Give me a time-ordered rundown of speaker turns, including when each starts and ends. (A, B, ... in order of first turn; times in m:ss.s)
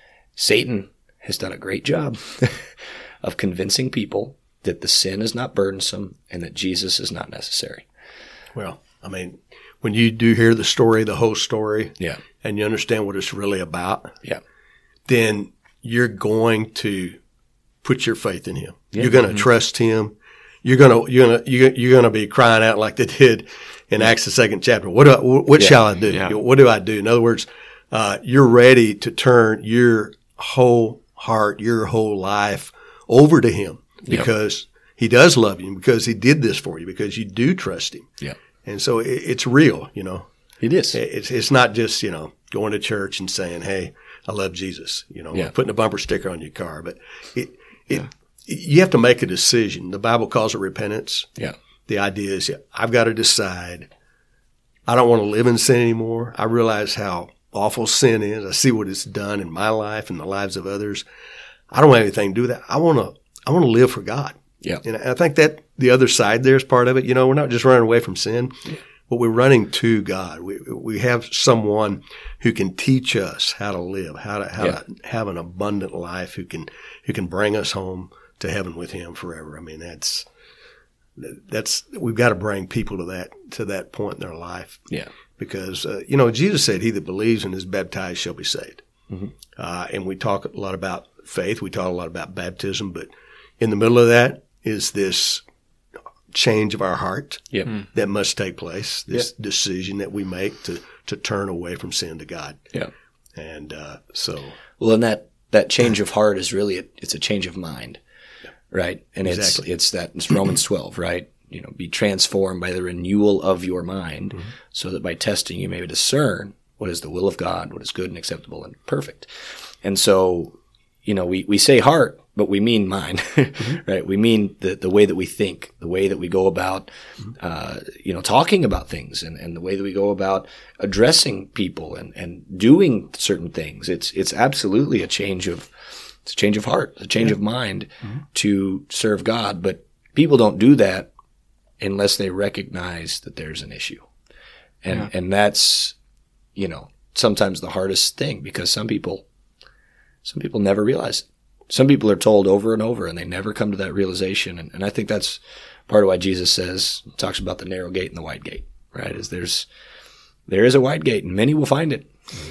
0:00.4-0:07.8 A
0:08.5-0:14.2 B
0:15.1-0:17.2 B
0:17.8-0:38.1 B
0:38.6-0:40.3 B
0:40.6-0:41.0 A
0:40.9-0:51.3 B
0:51.9-0:53.9 B
0:54.9-1:01.0 B
1:01.7-1:20.3 B
1:21.2-1:28.8 B
1:29.5-1:33.1 B
1:33.6-1:35.4 B
1:36.3-1:42.6 B
1:43.3-1:44.6 B
1:44.8-1:48.0 A
1:48.7-1:59.3 A
1:49.2-1:49.6 B
1:59.8-2:15.7 A
2:16.2-2:21.1 A
2:21.8-2:24.1 A
2:24.8-2:25.9 A
2:26.6-2:29.2 A
2:30.2-2:39.7 A
2:40.5-2:42.1 A